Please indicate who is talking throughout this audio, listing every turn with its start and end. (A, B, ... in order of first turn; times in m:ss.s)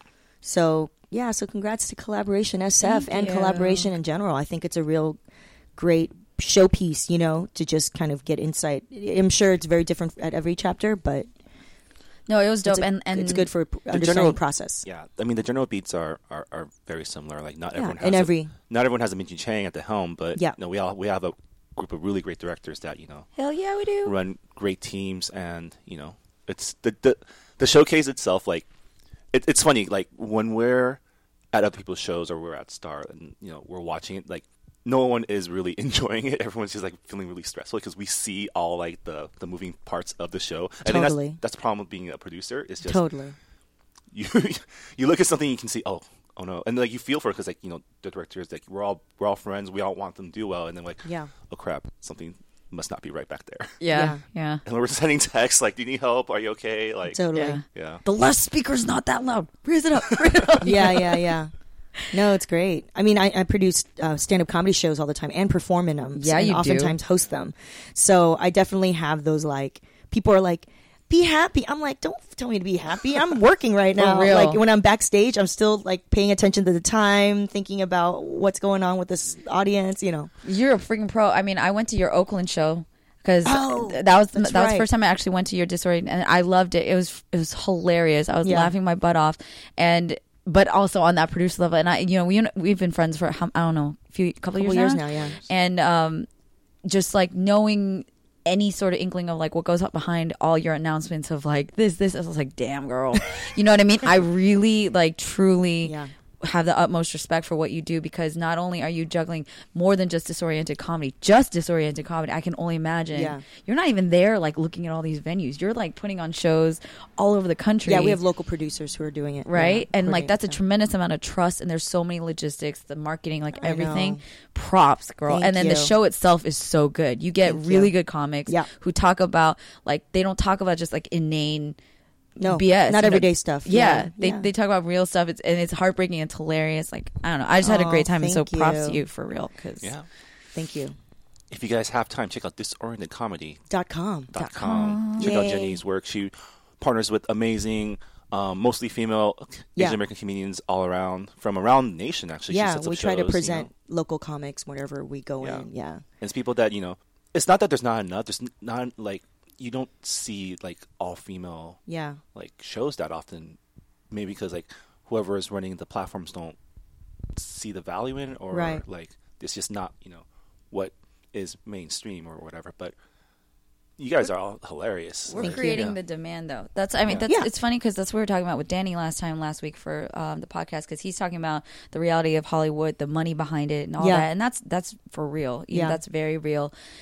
0:00.4-0:05.2 A
0:02.8-0:03.9 B
0:05.8-0:11.3 A
0:12.3-0:13.5 B
0:12.6-0:14.8 A
0:13.9-0:23.3 C
0:17.7-0:18.5 A
0:23.4-0:24.1 B
0:24.0-0:28.6 C
0:29.3-0:31.0 C
0:31.5-0:43.1 C
0:40.8-0:41.4 A
0:42.8-0:43.4 A
0:44.1-0:53.8 C
0:51.0-0:51.3 A
0:53.8-0:54.6 B
0:53.9-0:54.2 A
0:54.6-0:58.0 C
0:57.1-0:57.6 A
0:57.3-1:01.3 B
1:00.6-1:01.5 A
1:02.1-1:20.3 A
1:06.2-1:07.0 B
1:14.0-1:14.6 B
1:20.4-1:36.3 B
1:23.4-1:24.9 A
1:28.4-1:28.7 A
1:34.6-1:35.4 A
1:35.1-1:35.4 C
1:36.8-1:58.2 B
1:45.8-1:46.1 A
1:53.1-1:53.4 A
1:57.9-2:00.6 A
1:59.4-2:11.8 B
2:03.6-2:04.2 A
2:05.3-2:05.9 A
2:07.4-2:07.9 A
2:12.4-2:14.5 A
2:12.4-2:19.9 B
2:17.6-2:19.0 A
2:19.8-2:20.1 C
2:20.5-2:20.9 A
2:21.5-2:23.6 C
2:23.7-2:24.3 A
2:24.3-2:33.7 C
2:24.4-2:25.4 B
2:25.2-2:25.8 A
2:32.5-2:36.0 A
2:36.2-2:41.8 C
2:41.9-2:42.2 A
2:42.3-2:43.6 C
2:44.1-2:46.6 C
2:47.4-2:52.9 C
2:48.5-2:48.8 A
2:54.0-2:56.0 C
2:55.3-3:06.7 B
2:55.3-2:55.8 A
3:04.0-3:04.3 A
3:05.7-3:06.0 A